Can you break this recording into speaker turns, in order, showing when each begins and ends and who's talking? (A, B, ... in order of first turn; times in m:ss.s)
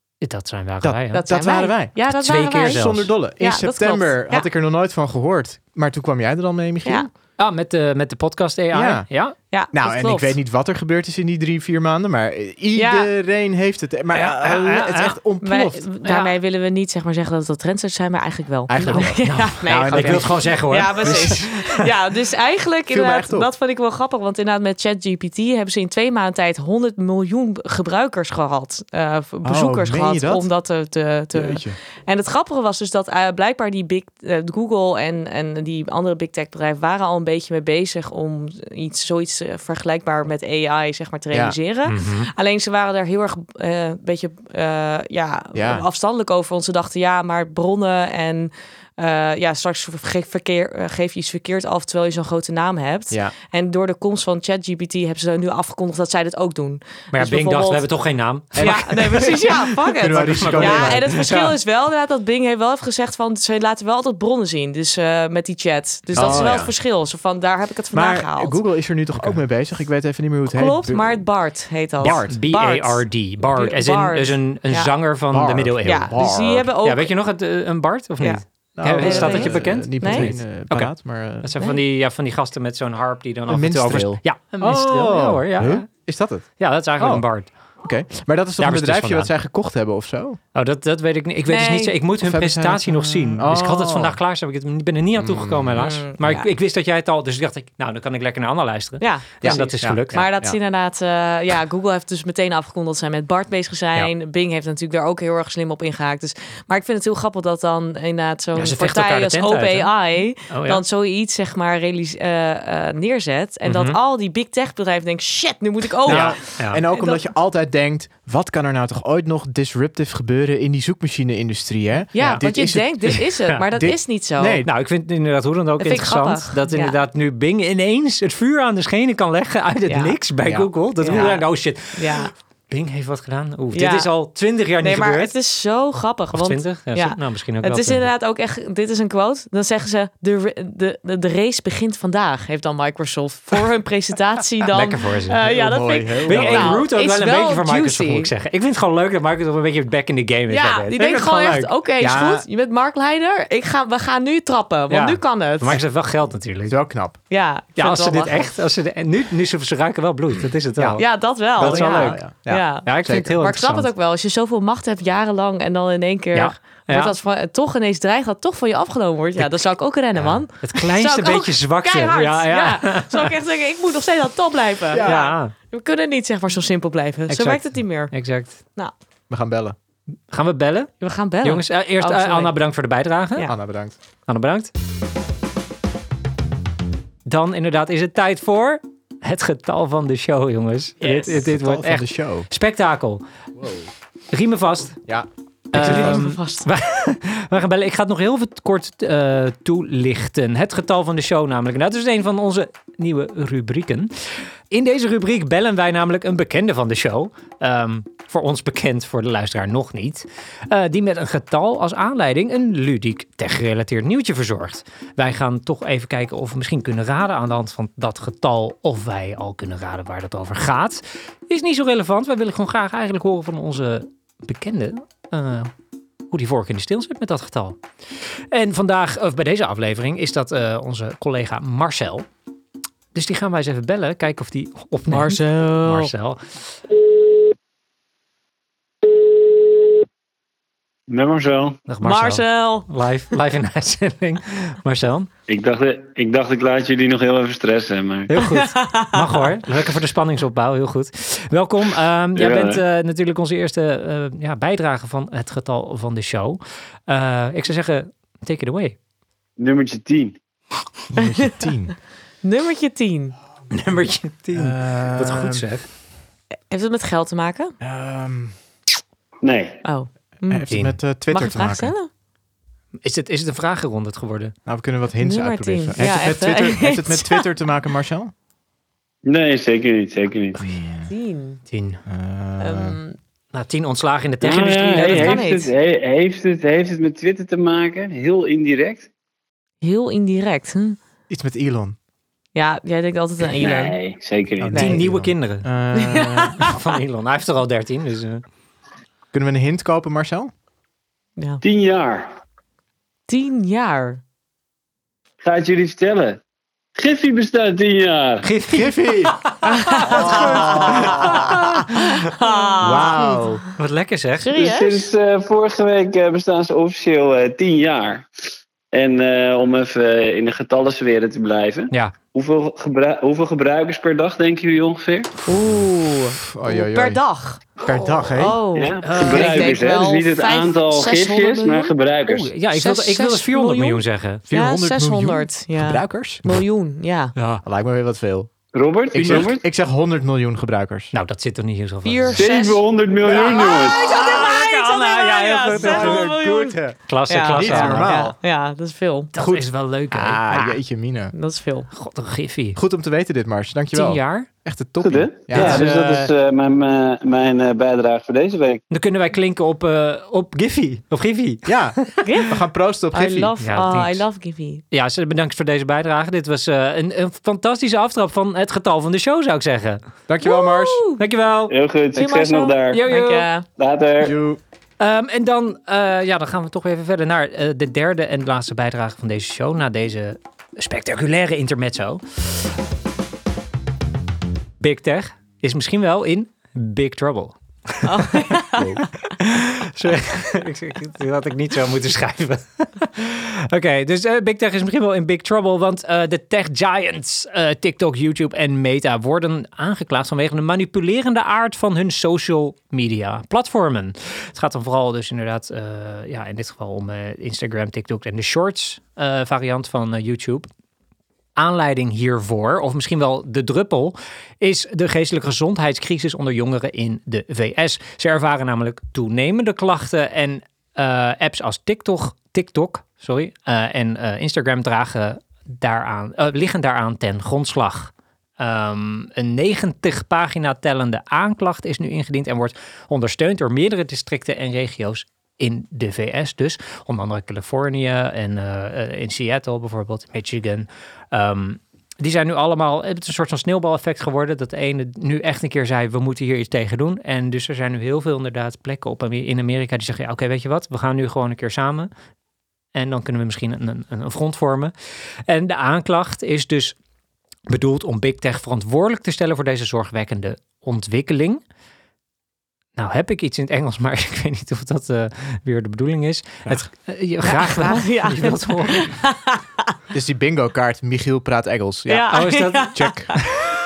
0:00.2-0:01.2 A
0:00.8-0:07.1 B
0:01.1-0:04.5 C
0:02.1-0:03.1 A
0:07.4-0:09.4 A
0:08.7-0:09.1 B
0:09.5-0:10.4 C
0:09.7-0:15.8 B
0:12.8-0:13.1 C
0:14.1-0:15.2 A
0:15.4-0:57.9 C
0:16.0-0:16.3 A
0:18.7-0:21.6 B
0:18.9-0:21.6 A
0:22.9-0:23.5 B
0:29.4-0:30.5 B
0:31.3-0:31.8 B
0:41.3-0:41.6 B
0:41.9-0:42.3 A
0:45.5-0:45.9 B
0:57.1-1:01.5 A
0:58.6-1:01.4 B
0:58.6-1:08.6 C
1:06.1-1:06.7 B
1:06.2-1:06.5 A
1:07.9-1:11.2 B
1:10.5-1:14.9 C
1:12.0-1:12.3 B
1:12.0-1:16.3 A
1:15.3-1:16.7 B
1:15.8-1:17.1 C
1:16.8-1:25.9 A
1:18.8-1:21.5 B
1:19.0-1:20.3 C
1:23.5-1:27.3 B
1:26.6-1:27.5 A
1:27.8-1:30.4 B
1:28.6-1:29.3 A
1:30.5-1:40.3 A
1:31.5-1:32.0 C
1:32.2-1:34.2 B
1:35.2-1:35.9 B
1:35.8-1:36.5 C
1:39.0-1:57.2 C
1:39.4-1:40.6 B
1:48.6-1:49.9 A
1:50.5-1:50.8 A
1:53.7-1:54.0 A
1:56.0-2:03.2 B
1:56.1-1:56.8 A
2:02.1-2:04.6 C
2:02.2-2:02.4 A
2:03.1-2:03.6 A
2:03.8-2:04.7 B
2:04.6-2:15.3 A
2:05.8-2:07.0 C
2:09.9-2:10.2 C
2:10.4-2:11.3 B
2:11.0-2:12.3 C
2:13.7-2:14.1 C
2:14.8-2:28.3 C
2:16.3-2:18.1 A
2:24.7-2:25.4 A
2:25.5-2:26.8 B
2:26.3-2:31.7 A
2:30.5-2:35.8 C
2:32.0-2:32.5 B
2:34.9-2:36.8 A
2:36.7-2:37.2 B
2:37.3-2:38.5 C
2:37.8-2:41.0 A
2:40.8-2:41.0 B
2:41.0-2:58.2 C
2:41.6-2:43.4 B
2:41.6-2:42.2 A
2:42.8-2:43.9 A
2:46.3-2:47.1 A
2:50.6-2:53.3 A
2:54.9-2:55.2 B
2:55.0-2:55.5 A
2:57.3-2:58.6 A
2:59.3-2:59.8 B
3:00.3-3:00.9 A
3:01.0-3:02.5 C
3:01.4-3:03.5 A
3:03.5-3:04.0 B
3:04.3-3:04.7 A
3:07.3-3:13.2 A
3:11.0-3:12.5 B
3:13.6-3:13.9 B
3:14.3-3:15.0 A
3:15.1-3:16.2 B
3:15.7-3:45.7 A
3:15.7-3:16.7 C
3:46.3-3:47.8 A
3:48.5-3:52.3 A
3:53.1-3:56.4 A
3:55.1-3:56.1 C
4:01.1-4:01.8 D
4:01.9-4:05.3 A
4:02.0-4:02.9 C
4:05.5-4:08.3 D
4:08.3-4:19.0 A
4:08.4-4:09.3 C
4:12.4-4:12.8 D
4:19.6-4:20.4 D
4:21.1-4:22.0 B
4:21.2-4:21.5 C
4:22.4-4:23.4 C
4:23.7-4:25.9 A
4:24.5-4:25.7 B
4:26.7-4:27.8 C
4:27.8-4:28.6 B
4:29.4-4:29.8 D
4:29.8-4:32.1 C
4:30.5-4:31.9 B
4:30.7-4:31.0 A
4:33.0-4:34.5 A
4:34.7-4:38.3 B
4:35.2-4:37.5 C
4:39.2-4:40.7 D
4:40.6-4:41.1 B
4:41.1-4:41.6 C
4:41.7-4:42.0 A
4:42.1-4:43.0 B
4:42.6-4:43.2 C
4:43.5-4:45.4 A
4:44.4-4:49.1 D
4:44.9-4:45.7 C
4:49.8-4:51.0 C
4:51.3-4:52.0 B
4:52.6-4:54.0 C
4:53.6-4:54.9 D
4:54.6-4:56.6 B
4:54.7-4:55.0 C
4:54.8-4:55.7 A
4:55.9-4:56.8 C
4:56.6-4:58.4 A
4:59.3-5:00.5 B
5:01.4-5:01.6 C
5:01.6-5:02.3 D
5:03.3-5:04.2 C
5:05.4-5:06.4 D
5:07.0-5:08.5 D
5:08.4-5:08.9 A
5:08.7-5:09.4 B
5:09.6-5:13.7 C
5:10.0-5:11.6 B
5:10.1-5:11.0 A
5:12.8-5:13.6 B
5:13.8-5:14.5 A
5:14.4-5:15.1 C
5:14.6-5:18.3 D
5:18.9-5:25.3 D
5:25.5-5:31.9 C
5:26.4-5:27.2 B
5:27.8-5:28.6 B
5:28.8-5:32.5 D
5:29.0-5:29.8 A
5:32.3-5:34.4 A
5:32.7-5:37.3 C
5:34.5-5:36.5 B
5:37.4-5:37.6 A
5:37.6-5:38.5 B
5:38.8-5:39.6 D
5:39.1-5:41.1 B
5:41.1-5:42.4 A
5:42.0-5:46.8 C
5:42.3-5:44.1 D
5:44.0-5:46.3 A
5:45.7-5:47.0 B
5:47.1-5:48.1 A
5:47.3-5:49.3 C
5:47.5-5:48.4 B
5:49.3-5:50.4 A
5:49.4-5:51.3 B
5:50.5-5:50.8 C
5:51.3-5:51.9 C
5:51.9-5:52.8 A
5:52.8-5:56.3 B
5:53.9-5:54.5 A
5:55.0-5:58.8 D
5:55.5-5:56.0 A
5:58.9-6:02.2 A
6:01.7-6:03.5 B
6:02.2-6:02.6 C
6:03.1-6:04.8 C
6:03.6-6:04.2 A
6:04.9-6:10.0 A
6:10.3-6:11.0 B
6:10.4-6:11.2 C
6:11.2-6:11.7 A
6:11.7-6:13.0 D
6:12.2-6:13.6 C
6:12.9-6:13.5 A
6:13.8-6:14.4 D
6:14.2-6:14.6 B
6:15.0-6:22.6 A
6:24.8-6:28.3 A
6:28.0-6:29.0 C
6:28.8-6:29.0 B
6:29.4-6:50.7 A
6:51.6-7:32.1 A
7:32.9-7:34.9 A
7:35.5-7:37.0 A
7:37.7-7:41.6 A
7:43.0-7:49.2 A
7:47.4-7:49.9 C
7:50.1-7:52.4 B
7:52.1-7:53.5 C
7:52.3-7:53.0 A
7:52.9-7:53.3 B